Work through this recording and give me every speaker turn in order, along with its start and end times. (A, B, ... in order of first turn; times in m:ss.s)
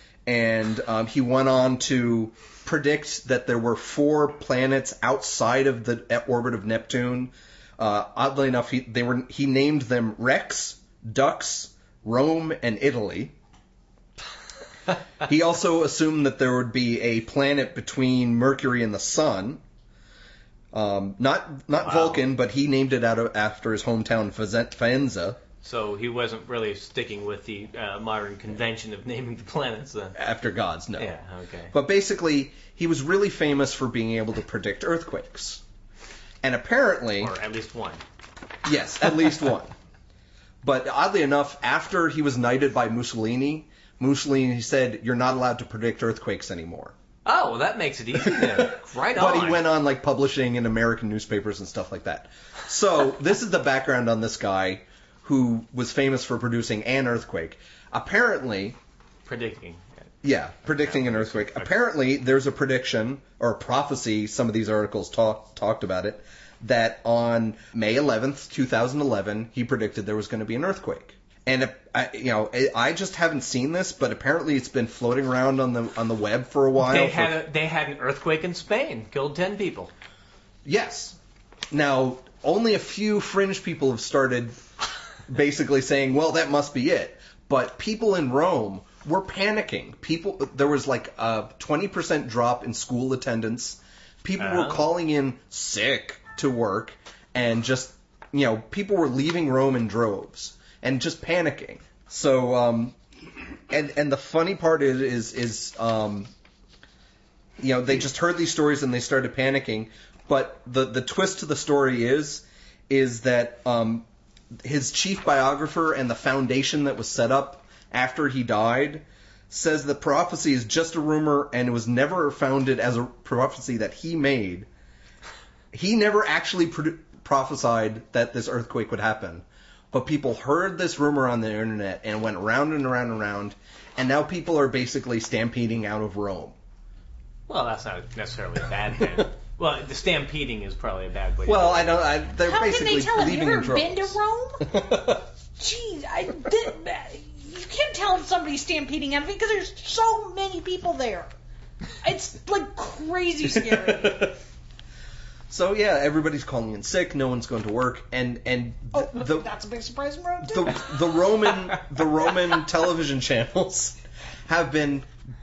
0:00.3-0:13.3 A
0:15.2-0:19.6 A
0:20.7-0:25.4 A
0:21.8-0:22.2 B
0:25.6-0:30.2 B
0:30.2-0:31.1 A
0:31.0-0:31.7 B
0:31.7-0:35.6 A
0:36.4-0:37.4 A
0:37.2-0:38.0 B
0:38.6-0:39.7 A
0:40.6-0:46.9 A
0:47.2-0:49.6 B
0:48.3-0:58.8 A
0:59.3-1:00.1 B
1:00.2-1:17.4 A
1:00.8-1:01.7 B
1:16.8-1:19.9 B
1:20.6-1:21.2 A
1:21.7-1:24.6 A
1:25.3-1:43.0 A
1:34.4-1:34.8 B
1:43.7-1:46.3 A
1:47.6-1:54.1 A
1:54.6-2:04.7 A
2:05.7-2:16.6 A
2:17.5-2:21.9 B
2:21.4-2:25.2 A
2:22.4-2:24.8 C
2:25.6-2:31.3 C
2:32.0-2:34.3 C
2:33.9-2:34.1 A
2:35.5-2:39.5 A
2:38.9-2:41.0 C
2:40.4-2:45.1 A